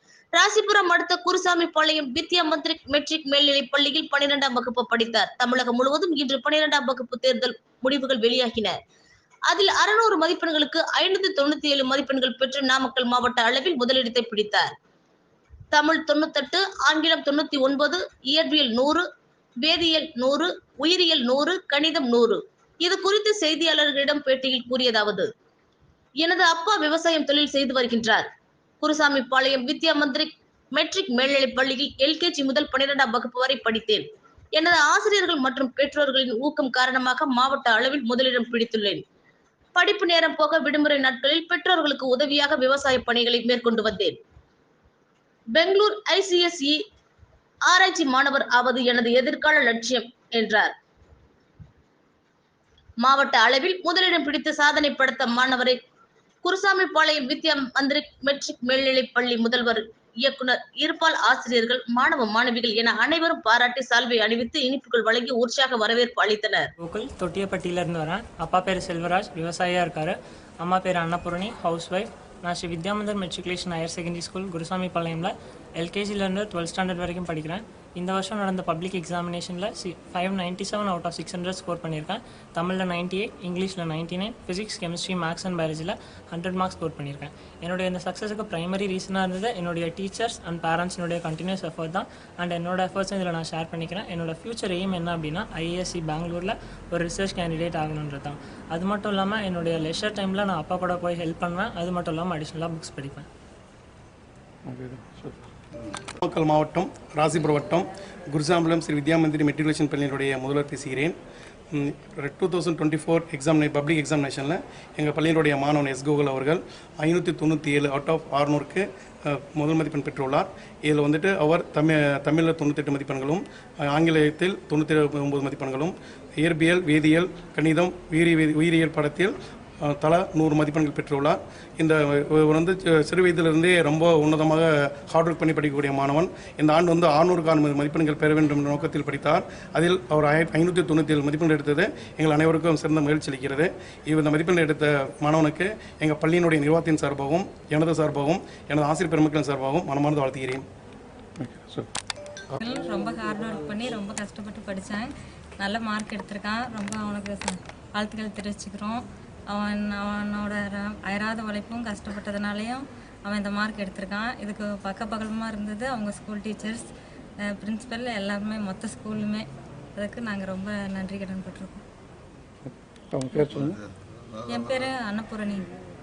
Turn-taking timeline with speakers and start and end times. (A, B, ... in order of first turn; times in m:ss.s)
0:00.4-0:08.8 A
0:09.5-0:14.7 A
0:15.7-0:19.0 A
0:19.6-0:25.3 A
0:26.2-0:28.3 A
0:28.8-0:39.0 A
0:39.8-0:44.2 A
0:45.6-0:46.8 A
0:47.7-0:50.7 A
0:53.0-0:55.8 A
0:56.4-1:06.7 A
1:06.8-1:43.3 B
1:44.7-1:45.4 C
1:46.2-1:51.2 D
1:51.7-2:30.6 D
2:31.4-2:31.9 C
2:32.6-2:46.9 E
2:47.4-2:51.8 E
2:52.7-2:53.8 C
2:54.5-2:55.7 E